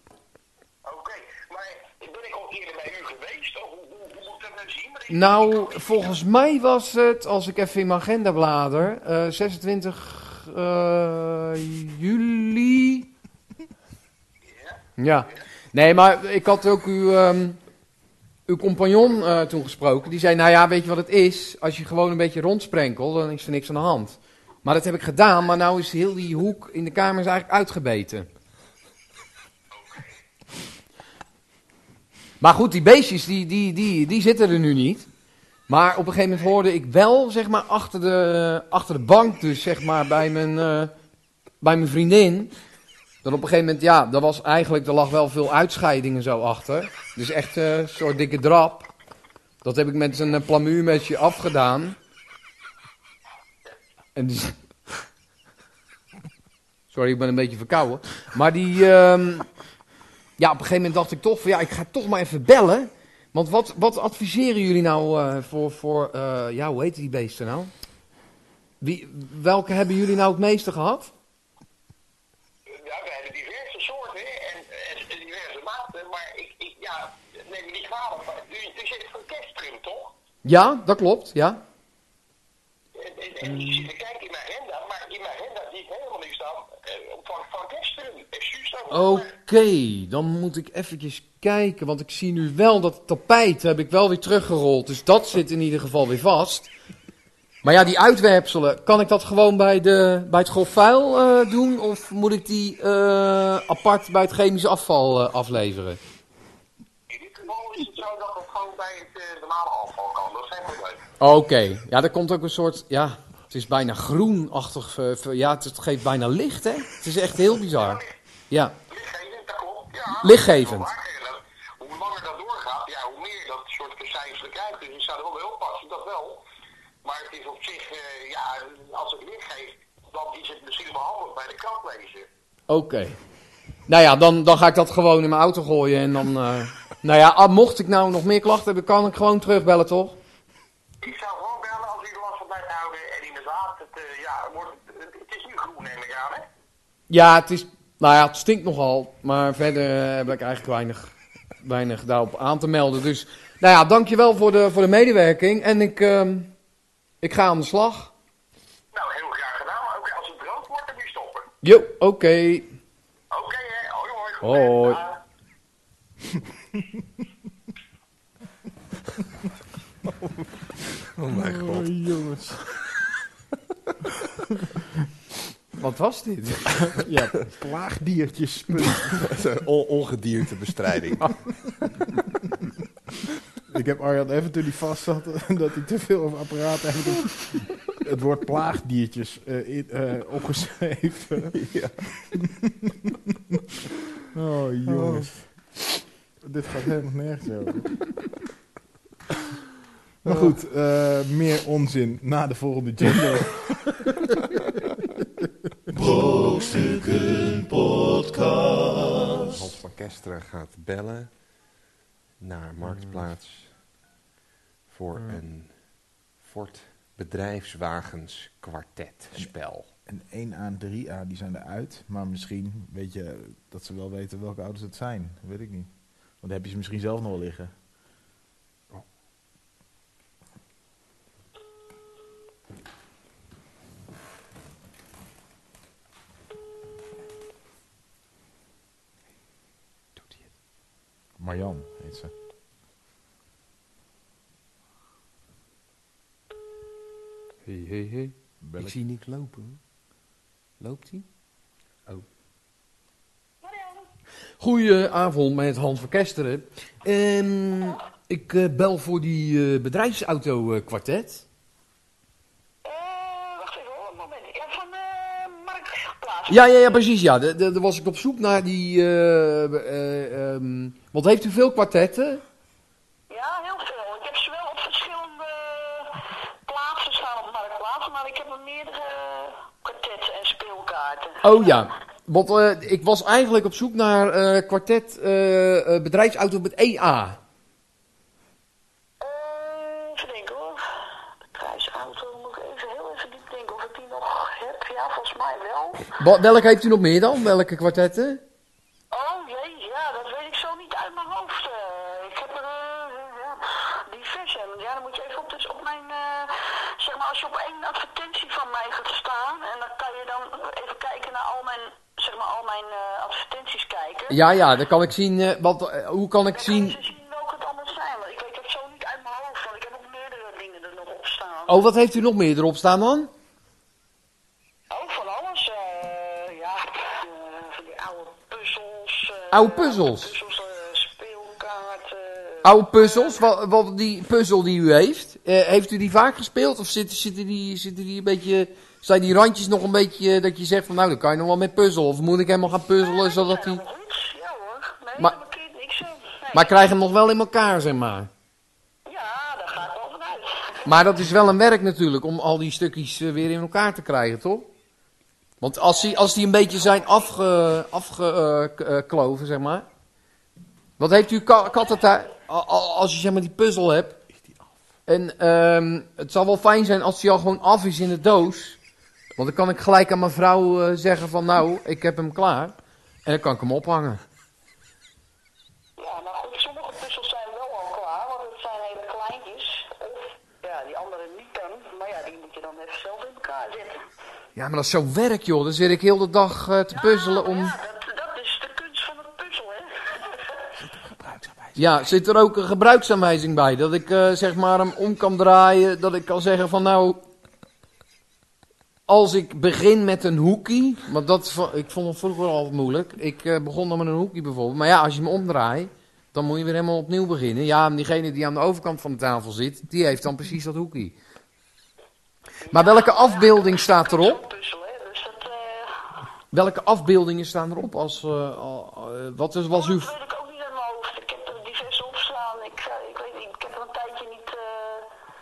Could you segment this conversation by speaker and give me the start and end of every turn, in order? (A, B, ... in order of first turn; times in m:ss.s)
0:00.8-0:05.6 A
0:05.1-0:13.1 B
0:15.0-0:17.6 B
0:18.5-0:28.3 B
0:29.7-0:30.1 A
0:32.4-0:35.1 B
0:35.7-0:40.9 B
0:41.6-0:42.5 B
0:43.2-0:48.9 B
0:49.6-0:52.0 B
0:54.2-0:54.6 B
0:56.9-0:59.5 B
1:00.4-1:07.7 B
1:08.8-1:11.1 B
1:12.7-1:20.1 A
1:20.4-1:21.6 B
1:22.9-1:29.3 A
1:23.4-1:23.9 B
1:28.9-1:36.7 B
1:37.6-1:46.0 B
1:47.1-1:51.0 A
1:51.2-1:58.8 B
1:57.7-1:58.1 A
1:58.9-2:06.4 A
2:00.2-2:00.9 B
2:07.0-2:12.3 A
2:12.7-2:13.2 B
2:13.9-2:20.2 B
2:21.0-2:26.4 A
2:27.1-2:36.5 B
2:37.2-2:38.1 B
2:38.9-2:41.5 A
2:41.6-2:42.7 B
2:43.3-2:45.2 A
2:44.4-2:45.0 B
2:51.0-2:51.9 C
2:51.3-2:52.6 D
2:55.8-2:57.0 B
2:56.9-2:59.4 D
2:58.8-3:01.3 C
3:03.7-3:11.6 D
3:11.5-3:12.0 C
3:12.3-3:13.6 D
3:14.3-3:15.4 D
3:14.9-3:15.3 C
3:16.4-3:17.9 D
3:20.2-3:24.6 D
3:25.9-3:29.5 E
3:29.4-3:31.3 C
3:32.4-3:33.7 C
3:34.9-3:35.7 C
3:36.4-3:39.9 C
3:40.1-3:45.9 D
3:46.4-3:47.7 D
4:00.2-4:00.4 B
4:01.4-4:02.3 D
4:07.6-4:09.8 B
4:08.6-4:09.0 D
4:10.8-4:11.2 B
4:13.6-4:14.1 F
4:14.6-4:21.4 B
4:22.8-4:27.0 F
4:26.5-4:32.4 B
4:33.3-4:41.8 F
4:41.4-4:47.4 B
4:49.2-4:50.8 F
4:51.5-4:56.2 F
4:56.2-4:58.4 B
4:59.1-5:14.4 F
5:14.3-5:17.0 B
5:16.5-5:21.9 F
5:21.7-5:23.3 B
5:24.9-5:33.4 F
5:29.5-5:30.3 B
5:32.6-5:43.8 B
5:42.9-5:46.7 F
5:46.5-5:48.3 B
5:49.0-5:50.9 F
5:50.8-5:54.7 B
5:55.6-5:59.8 B
6:01.0-6:04.2 B
6:05.1-6:08.8 B
6:09.4-6:14.2 B
6:16.0-6:24.0 F
6:24.6-6:27.7 B
6:26.9-6:30.6 F
6:30.8-6:31.8 D
6:31.8-6:37.2 B
6:39.1-6:51.2 B
6:52.6-6:56.0 F
6:52.7-6:54.4 B
6:56.5-7:00.1 B
6:59.7-7:05.1 F